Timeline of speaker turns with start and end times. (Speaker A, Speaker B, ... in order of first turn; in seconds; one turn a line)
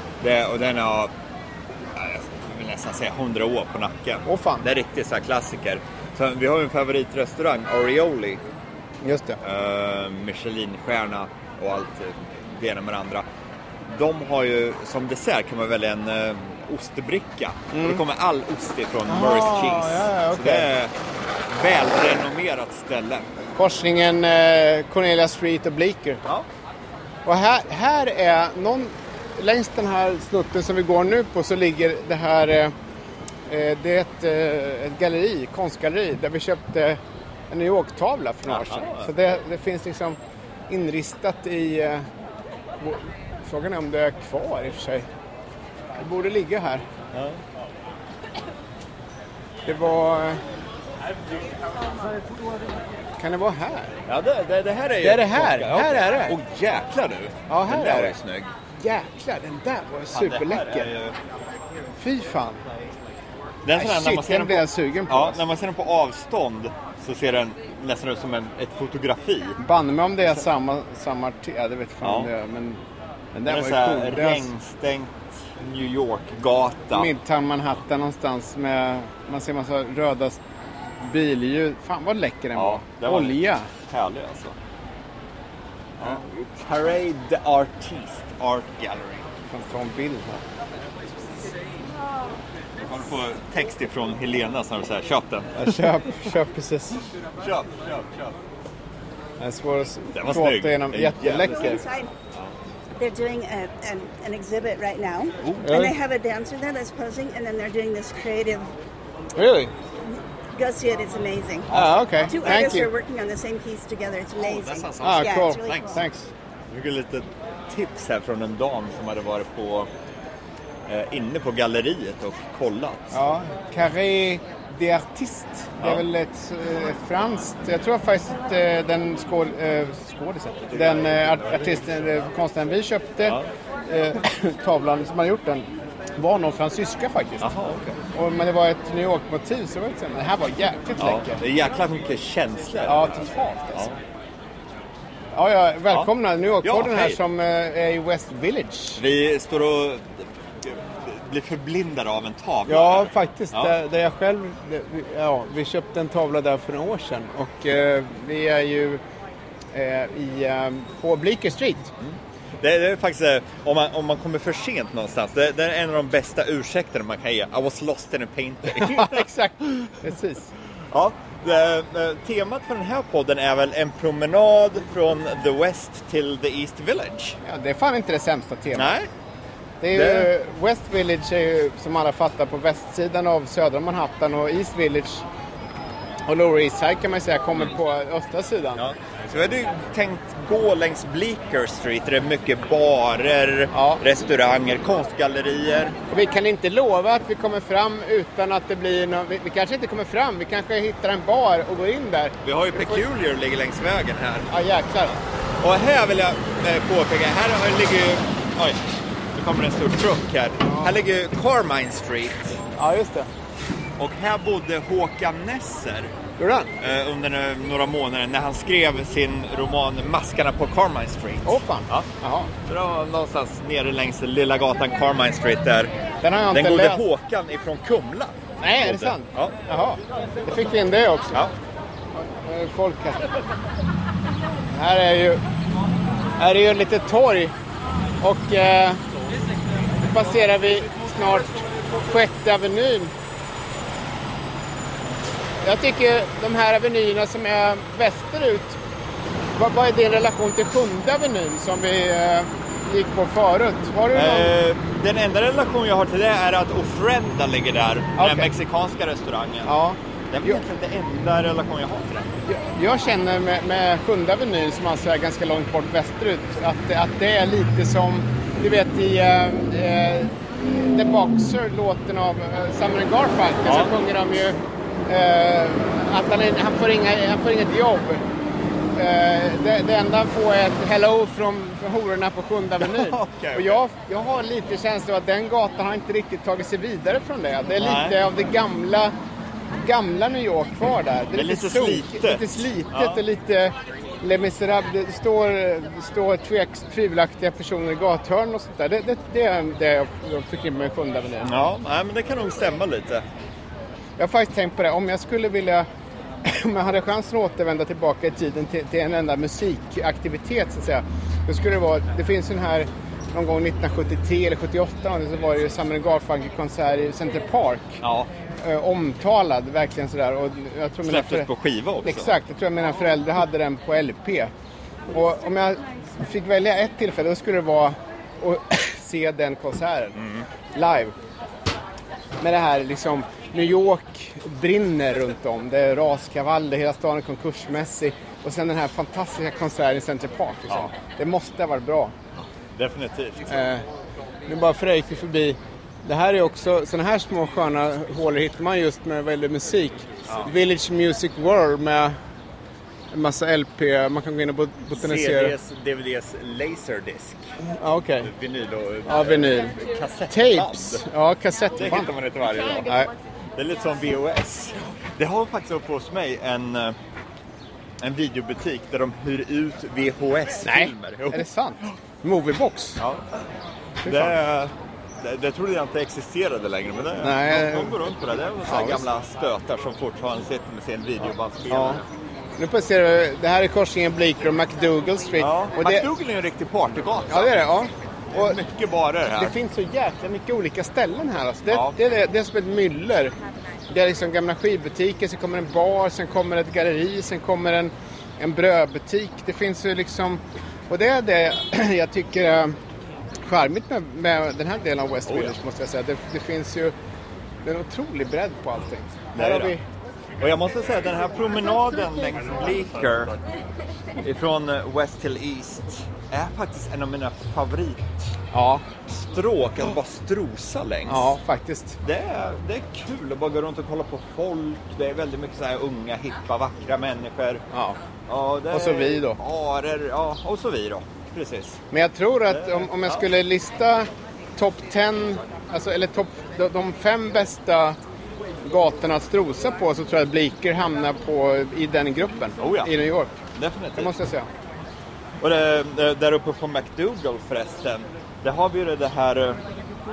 Speaker A: 0.2-1.1
Speaker A: 1.9-8.4
Speaker B: 4.2-4.7
Speaker B: 9.0-9.4
Speaker A: 9.4-13.3
Speaker A: 13.9-20.9
Speaker B: 17.7-18.0
Speaker B: 19.1-20.7
Speaker A: 21.5-23.3
Speaker B: 23.6-26.2
Speaker B: 27.3-32.7
Speaker B: 33.5-40.2
Speaker A: 38.5-39.1
Speaker B: 40.7-42.1
Speaker B: 42.8-45.1
Speaker B: 46.0-46.8
Speaker A: 47.1-47.4
Speaker B: 49.6-50.4
Speaker B: 53.2-54.0
Speaker A: 54.1-58.5
Speaker B: 55.0-56.4
Speaker B: 57.5-58.2
Speaker B: 58.8-60.9
Speaker A: 60.1-61.2
Speaker B: 62.0-62.6
Speaker A: 63.6-69.6
Speaker B: 63.8-65.4
Speaker B: 69.6-72.8
Speaker A: 72.0-72.3
Speaker B: 73.3-74.5
Speaker A: 73.5-77.1
Speaker B: 76.9-80.4
Speaker B: 81.0-83.7
Speaker A: 82.6-84.6
Speaker A: 86.0-89.3
Speaker B: 89.5-90.4
Speaker A: 92.8-95.7
Speaker B: 95.5-97.0
Speaker A: 97.4-98.3
Speaker B: 99.4-101.8
Speaker A: 100.2-101.8
Speaker C: 101.3-102.1
Speaker C: 103.0-108.7
Speaker A: 105.4-105.7
Speaker B: 105.6-105.9
Speaker B: 109.4-109.7
Speaker C: 110.5-115.8
Speaker A: 111.7-112.7
Speaker B: 111.7-112.9
Speaker A: 114.4-116.0
Speaker B: 115.0-116.3
Speaker A: 116.7-119.9
Speaker A: 120.9-123.2
Speaker B: 123.1-137.5
Speaker A: 130.7-131.9
Speaker A: 137.4-138.0
Speaker B: 138.1-141.4
Speaker A: 141.0-143.2
Speaker B: 142.9-143.9
Speaker B: 145.3-149.0
Speaker A: 146.6-147.2
Speaker A: 148.9-153.8
Speaker B: 152.7-159.0
Speaker B: 159.7-161.9
Speaker A: 162.0-169.3
Speaker B: 168.7-170.5
Speaker A: 170.9-177.4
Speaker B: 177.4-178.9
Speaker A: 178.7-179.1
Speaker B: 179.8-185.2
Speaker A: 179.9-180.3
Speaker B: 186.3-188.8
Speaker A: 188.8-196.0
Speaker B: 193.7-194.0
Speaker B: 196.1-203.0
Speaker A: 202.4-204.5
Speaker B: 204.5-205.2
Speaker A: 205.1-208.8
Speaker A: 209.3-212.6
Speaker B: 210.6-210.9
Speaker B: 212.8-213.3
Speaker A: 214.0-216.1
Speaker B: 216.4-216.7
Speaker A: 216.8-222.1
Speaker B: 221.4-222.5
Speaker A: 222.7-225.9
Speaker B: 226.2-227.0
Speaker A: 226.5-229.5
Speaker B: 228.6-231.4
Speaker B: 232.2-233.3
Speaker B: 234.7-235.4
Speaker B: 236.4-237.5
Speaker B: 238.2-239.0
Speaker B: 240.0-243.1
Speaker B: 245.6-248.8
Speaker B: 249.6-254.5
Speaker A: 254.1-259.8
Speaker B: 258.2-258.5
Speaker B: 259.7-260.6
Speaker A: 260.3-262.4
Speaker B: 262.5-278.2
Speaker A: 273.6-273.9
Speaker B: 278.9-289.1
Speaker A: 282.8-283.8
Speaker A: 287.8-288.2
Speaker B: 289.8-301.5
Speaker A: 291.3-293.2
Speaker A: 301.4-303.2
Speaker B: 304.2-305.9
Speaker B: 306.4-318.0
Speaker A: 318.0-318.3
Speaker B: 318.6-321.5
Speaker A: 321.0-322.3
Speaker B: 322.0-324.5
Speaker B: 325.1-330.2
Speaker A: 330.2-330.4
Speaker B: 330.7-331.1
Speaker B: 332.4-342.1
Speaker A: 342.4-343.6
Speaker B: 343.5-343.9
Speaker B: 344.5-352.2
Speaker B: 353.1-355.6
Speaker A: 354.9-357.4
Speaker B: 357.6-358.3
Speaker A: 358.2-361.1
Speaker B: 359.1-359.8
Speaker B: 360.3-362.1
Speaker A: 361.7-363.0
Speaker B: 362.8-363.1
Speaker A: 363.6-367.0
Speaker A: 368.0-371.9
Speaker B: 370.6-373.0
Speaker A: 373.0-373.5
Speaker A: 374.0-382.1
Speaker B: 374.1-374.4
Speaker B: 377.2-378.1
Speaker B: 378.7-379.0
Speaker B: 381.7-382.0
Speaker B: 382.6-386.1
Speaker A: 385.4-387.6
Speaker B: 387.3-388.6
Speaker A: 388.3-389.6
Speaker B: 389.4-393.3
Speaker A: 391.7-392.0
Speaker B: 393.9-402.8
Speaker B: 403.5-406.9
Speaker A: 405.3-405.5
Speaker B: 407.6-409.8
Speaker A: 409.4-409.8
Speaker A: 410.4-413.4
Speaker A: 414.2-418.3
Speaker B: 418.5-418.8
Speaker A: 419.1-421.3
Speaker B: 421.1-422.0
Speaker A: 422.0-427.6
Speaker B: 427.7-428.0
Speaker A: 428.3-431.8
Speaker B: 428.7-429.4
Speaker B: 431.9-438.0
Speaker A: 432.5-433.2
Speaker B: 438.6-443.4
Speaker A: 442.6-442.9
Speaker A: 443.6-444.1
Speaker B: 444.0-444.5
Speaker A: 445.4-449.6